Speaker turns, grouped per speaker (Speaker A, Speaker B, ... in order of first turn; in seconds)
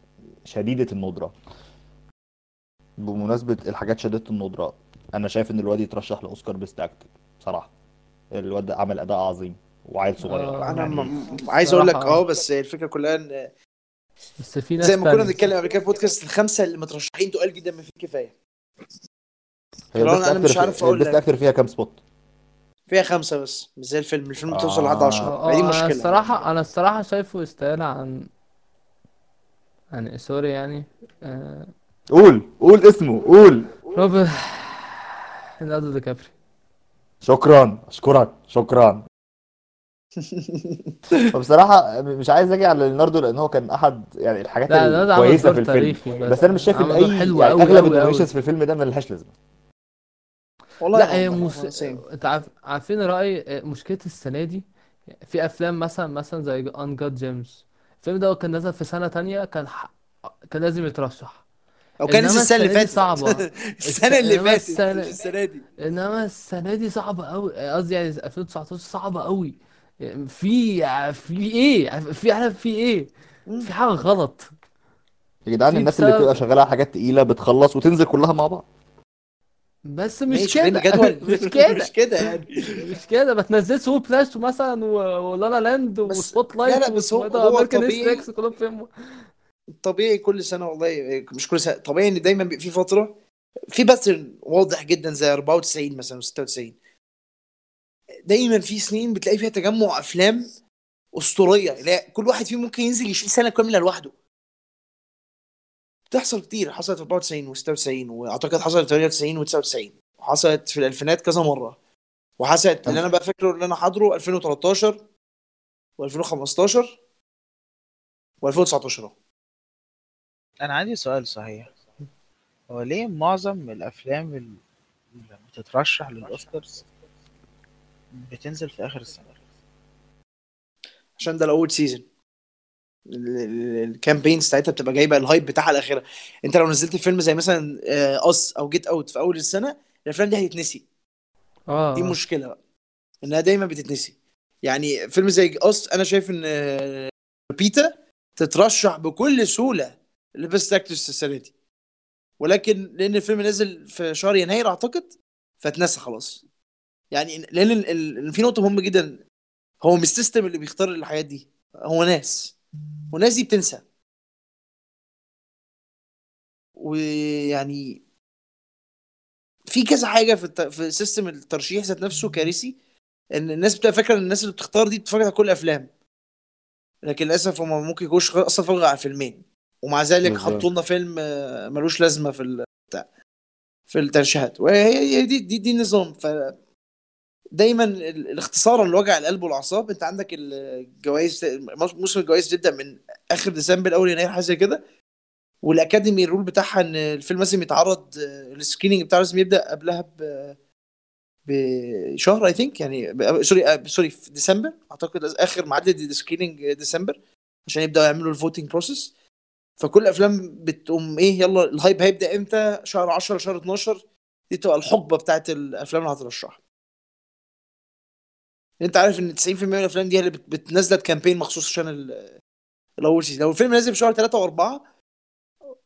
Speaker A: 0.5-1.3, 3.0-7.7, 8.3-11.1, 19.9-22.0, 24.5-25.3, 32.1-33.7, 37.2-39.0, 41.3-49.3, 75.5-78.6, 180.2-180.7
Speaker B: 10.2-12.2, 14.4-15.4, 25.2-28.3, 29.9-31.7, 33.9-36.3, 44.7-48.3, 50.9-54.6, 55.2-59.9, 60.5-61.4, 62.1-65.2, 65.8-73.1, 73.6-74.5, 75.7-76.3, 79.8-88.9, 141.7-142.2
Speaker C: 10.6-13.5, 14.8-18.3, 20.0-21.2, 22.9-26.3, 40.2-41.2, 50.8-52.0, 62.0-65.6, 80.3-82.8, 86.0-88.2, 89.8-93.1, 93.7-96.8, 98.3-100.5, 101.1-104.1, 106.1-111.8, 112.4-115.0, 116.0-117.0, 118.4-119.1, 131.2-132.0, 133.1-140.8, 141.9-142.6, 143.2-151.5, 152.4-156.4, 157.1-159.2, 159.8-162.5, 163.1-163.8, 166.8-168.0, 169.7-172.7, 173.3-175.9, 177.0-183.0, 183.9-186.5, 187.5-194.8, 195.6-200.6, 201.4-209.1, 209.8-216.6, 218.8-222.3, 223.0-224.8
Speaker D: 120.6-121.7, 122.7-124.6, 125.1-126.8, 128.1-129.3